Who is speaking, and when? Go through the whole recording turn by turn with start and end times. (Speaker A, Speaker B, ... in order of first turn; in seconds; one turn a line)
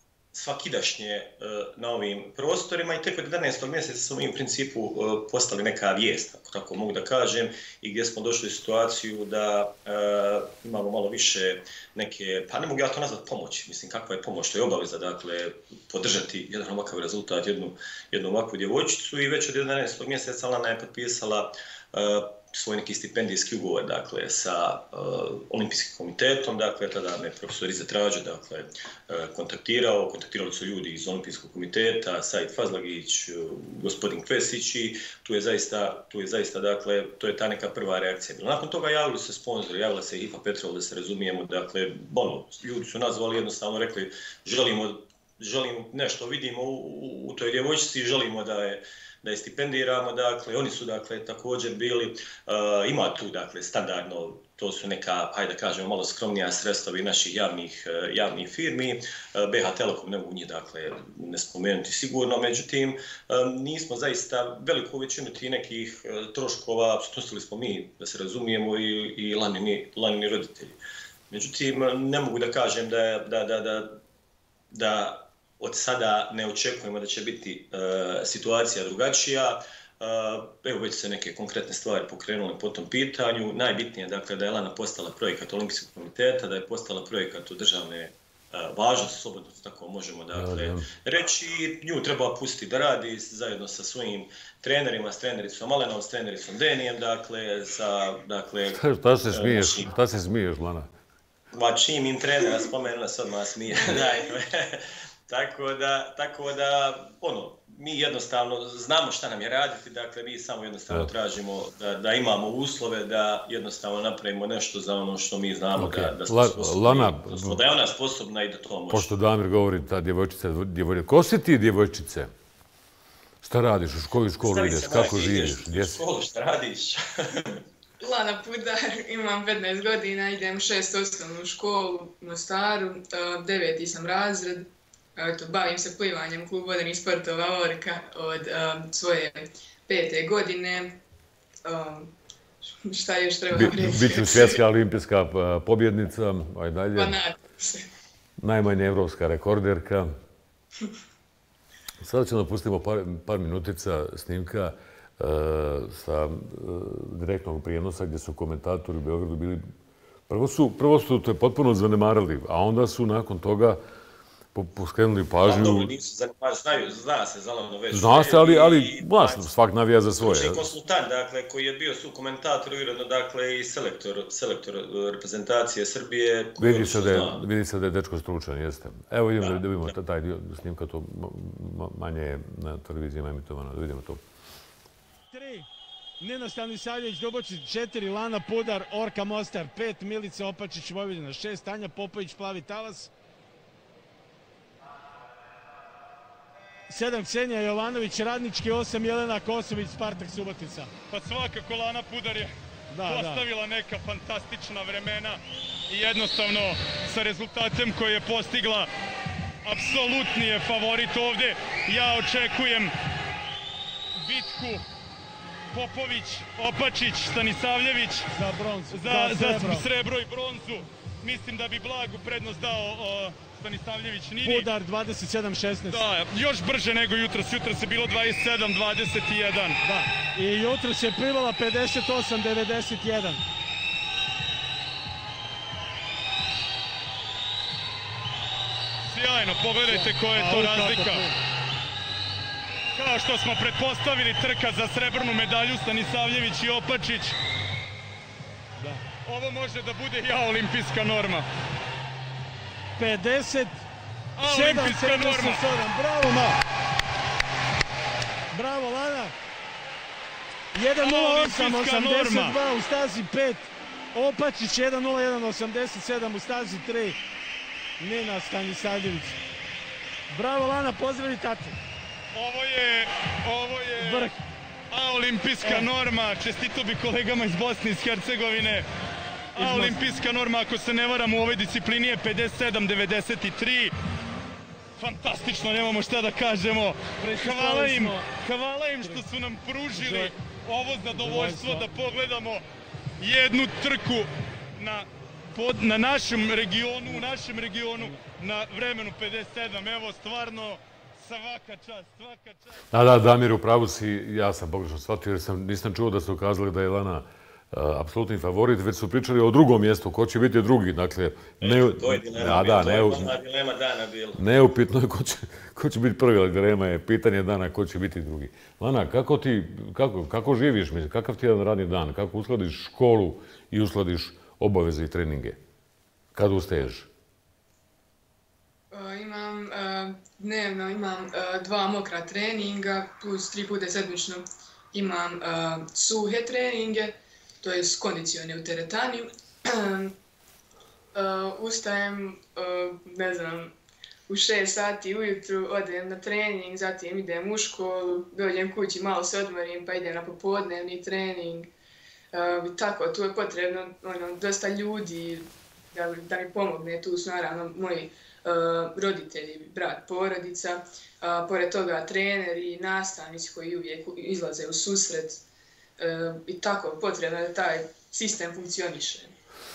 Speaker A: 0.3-70.8
Speaker A: 71.3-74.0
Speaker A: 74.7-99.9
Speaker B: 90.3-90.8
Speaker B: 98.8-100.9
Speaker A: 101.5-119.1
Speaker B: 115.8-117.6
Speaker B: 118.9-122.3
Speaker B: 123.4-126.0
Speaker A: 124.4-127.6
Speaker C: 128.0-141.0
Speaker C: 141.7-142.1
Speaker C: 142.8-144.6
Speaker B: 143.5-147.2
Speaker C: 146.9-147.8
Speaker B: 148.4-150.1
Speaker B: 152.0-159.6
Speaker B: 160.3-163.8
Speaker B: 164.5-165.9
Speaker A: 165.4-169.5
Speaker B: 167.9-170.7
Speaker A: 170.2-177.4
Speaker B: 176.6-184.2
Speaker A: 179.4-179.7
Speaker D: 185.3-185.7
Speaker D: 186.2-193.1
Speaker D: 196.9-200.9
Speaker E: 201.1-208.9
Speaker D: 202.9-203.5
Speaker E: 209.6-212.9
Speaker E: 214.2-214.8
Speaker E: 215.7-218.3
Speaker D: 218.3-219.9
Speaker E: 218.9-224.7
Speaker D: 224.4-226.0
Speaker E: 225.9-229.8
Speaker D: 229.8-233.4
Speaker E: 239.1-241.3
Speaker D: 239.9-241.4
Speaker E: 242.9-247.4
Speaker D: 248.8-249.1
Speaker E: 249.2-251.5
Speaker D: 253.0-253.8
Speaker E: 254.4-255.7
Speaker D: 254.4-256.6
Speaker D: 258.5-259.4
Speaker D: 260.7-267.2
Speaker E: 261.0-262.6
Speaker D: 268.0-269.4
Speaker D: 270.3-271.8
Speaker E: 272.3-274.4
Speaker D: 274.0-274.4
Speaker E: 274.9-278.9
Speaker D: 275.6-275.9
Speaker E: 279.5-283.9
Speaker D: 279.6-280.1
Speaker E: 285.0-292.6
Speaker D: 287.2-288.2
Speaker D: 289.9-290.3
Speaker D: 291.1-291.9
Speaker E: 293.2-302.7
Speaker B: 302.9-313.3
Speaker A: 311.6-314.4
Speaker B: 314.4-325.6
Speaker B: 326.4-327.1
Speaker C: 328.9-340.1
Speaker C: 341.1-343.7
Speaker C: 344.3-351.7
Speaker C: 352.3-365.4
Speaker C: 366.0-369.3